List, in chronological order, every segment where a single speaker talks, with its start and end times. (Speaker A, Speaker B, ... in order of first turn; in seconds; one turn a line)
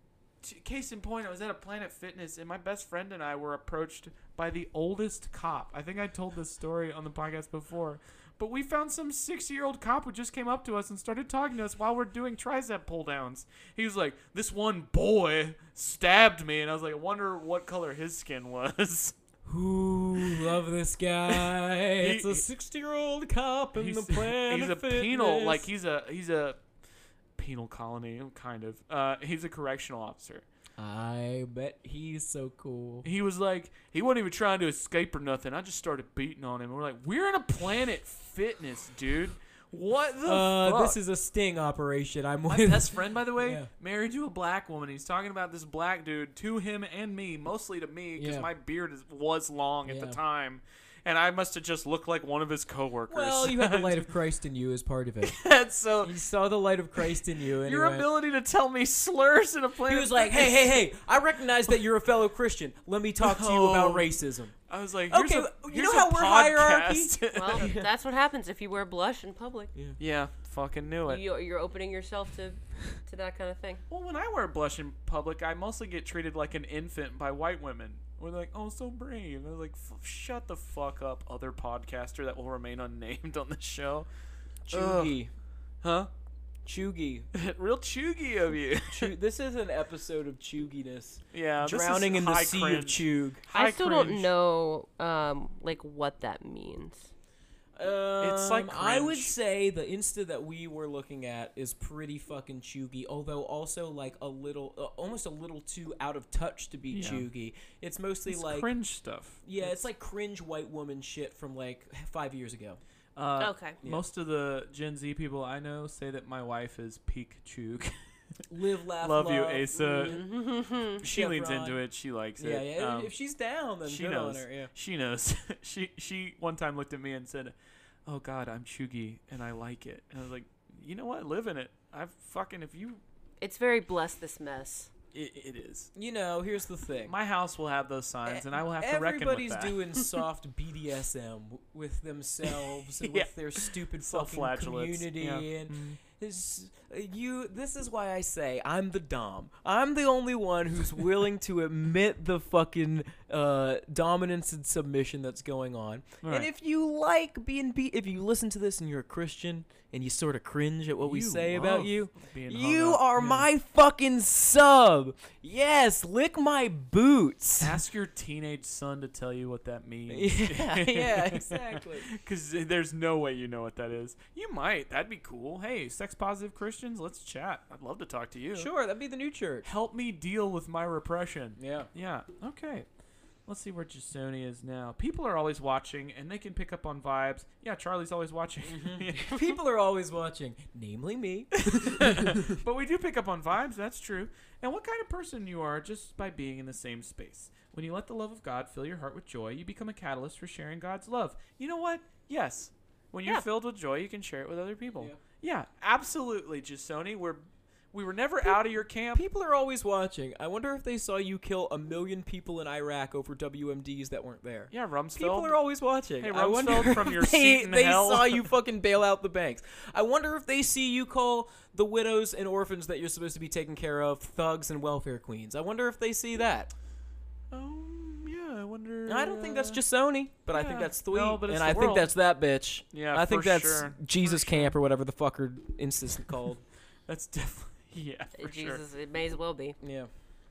Speaker A: 0.4-19.1
Speaker B: 19.4-25.7
Speaker A: 21.3-22.4
Speaker A: 23.7-26.6
Speaker A: 27.4-30.4
Speaker B: 30.8-33.0
Speaker A: 33.0-41.0
Speaker B: 40.2-43.7
Speaker A: 42.5-54.0
Speaker B: 48.2-48.5
Speaker B: 49.8-50.2
Speaker B: 53.1-55.4
Speaker A: 55.2-56.1
Speaker B: 56.0-58.1
Speaker A: 57.6-60.8
Speaker B: 59.9-64.5
Speaker A: 63.2-64.1
Speaker A: 64.7-67.7
Speaker B: 65.1-67.9
Speaker C: 67.3-69.7
Speaker A: 70.0-71.2
Speaker C: 71.1-73.8
Speaker A: 73.9-84.1
Speaker B: 84.7-85.3
Speaker A: 84.7-85.2
Speaker A: 85.8-86.1
Speaker B: 86.6-87.3
Speaker A: 87.3-89.1
Speaker B: 88.9-93.4
Speaker A: 91.3-94.3
Speaker C: 93.5-97.1
Speaker B: 97.8-108.7
Speaker A: 98.2-99.3
Speaker A: 106.9-107.3
Speaker A: 108.3-109.8
Speaker B: 109.4-112.8
Speaker A: 113.2-117.9
Speaker C: 113.4-113.8
Speaker B: 118.5-120.2
Speaker A: 119.0-120.3
Speaker C: 119.8-121.0
Speaker A: 120.9-123.1
Speaker B: 121.0-121.8
Speaker B: 122.4-124.7
Speaker A: 123.8-127.5
Speaker A: 128.1-133.0
Speaker C: 133.4-134.9
Speaker A: 135.1-135.9
Speaker B: 135.9-137.1
Speaker A: 137.1-139.8
Speaker B: 138.3-167.8
Speaker A: 143.0-143.3
Speaker A: 144.1-146.0
Speaker A: 156.2-156.5
Speaker A: 161.0-163.5
Speaker A: 167.6-178.7
Speaker B: 170.1-172.1
Speaker B: 178.5-179.7
Speaker A: 179.6-182.9
Speaker B: 181.6-181.9
Speaker A: 183.5-189.4
Speaker B: 188.6-192.6
Speaker A: 191.7-209.2
Speaker B: 204.9-205.2
Speaker B: 209.1-226.7
Speaker A: 214.7-215.6
Speaker A: 216.2-218.4
Speaker A: 227.5-229.8
Speaker B: 229.1-236.6
Speaker A: 230.5-232.1
Speaker A: 232.9-234.8
Speaker A: 237.1-238.8
Speaker C: 238.4-239.8
Speaker B: 239.8-240.1